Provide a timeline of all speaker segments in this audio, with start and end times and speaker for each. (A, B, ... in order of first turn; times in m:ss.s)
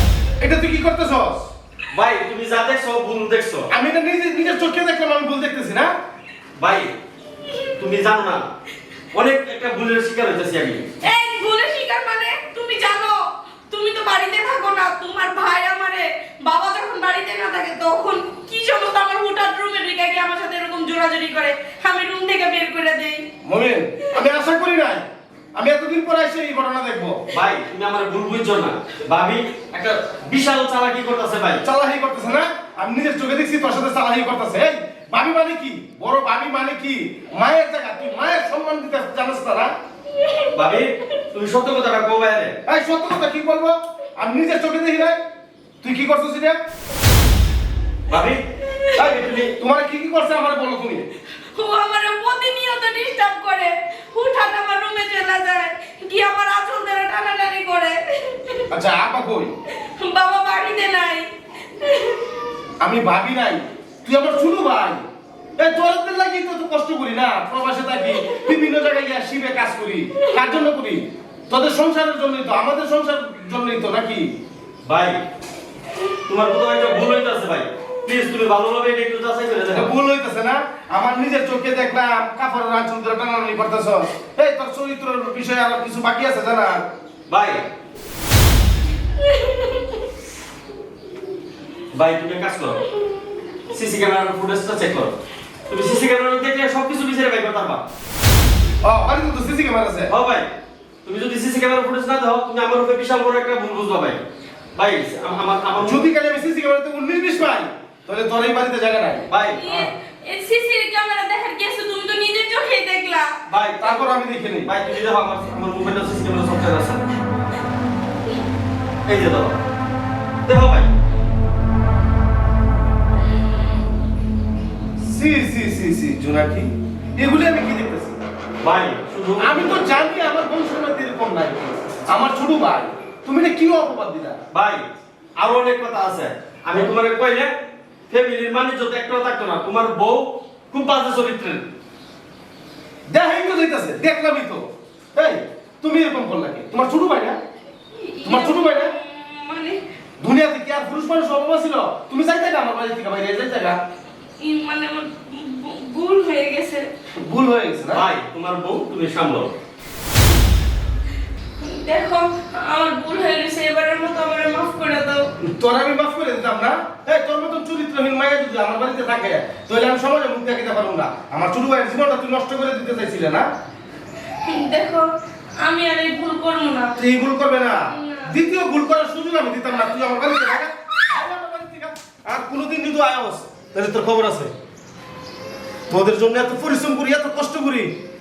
0:00.4-0:01.5 A
0:01.9-0:03.7 B
0:03.7-0:05.9 A
0:06.6-0:06.9 B
0:07.8-0:08.4 B
0:09.1-0:10.8 B
0:11.0-0:23.2 C
0:23.4-0:25.0 A
0:25.6-0:27.2 A
0:27.3-0:31.6 B
0:31.6-0:39.7 A
0:40.2-0:40.5 C
0:40.5-0:42.5 B
0:42.6-0:45.2 A
0:45.8-0:46.6 A
0:48.1-0:48.4 B
0:49.0-0:49.5 B
0:49.0-0:51.1 A
0:51.5-0:58.7 C
0:58.7-0:59.5 A
0:59.8-1:01.3 C
1:01.8-1:02.2 C
1:02.8-1:05.0 A
1:05.6-1:14.3 A
1:14.8-1:15.2 B
1:16.2-1:19.9 B
1:19.7-1:26.8 A
1:27.3-1:27.6 B
1:29.3-1:29.8 C
1:31.9-1:32.8 B
1:33.7-1:35.2 B
1:35.7-1:37.8 B
1:38.8-1:40.1 A
1:40.1-1:40.5 B
1:41.0-1:44.2 B
1:44.8-1:46.0 B
1:45.8-1:49.3 A
1:49.3-1:49.9 B
1:49.5-1:53.3 C
1:53.5-1:57.1 B
1:53.8-1:54.7 A
1:59.0-1:59.6 B
2:00.4-2:00.9 B
2:05.0-2:08.2 A
2:08.6-2:09.9 B
2:09.4-2:14.4 A
2:14.5-2:14.8 B
2:15.4-2:17.5 B
2:18.1-2:21.6 B
2:23.1-2:27.4 A
2:27.9-2:29.8 C
2:28.2-2:28.9 A
2:30.2-2:33.8 A
2:34.4-2:36.9 C
2:37.2-2:38.0 A
2:37.9-2:39.5 B
2:41.6-2:45.3 C
2:45.4-2:53.4 A
2:54.4-2:57.0 C
2:57.0-3:04.5 A
2:57.9-2:58.3 C
3:05.9-3:07.9 A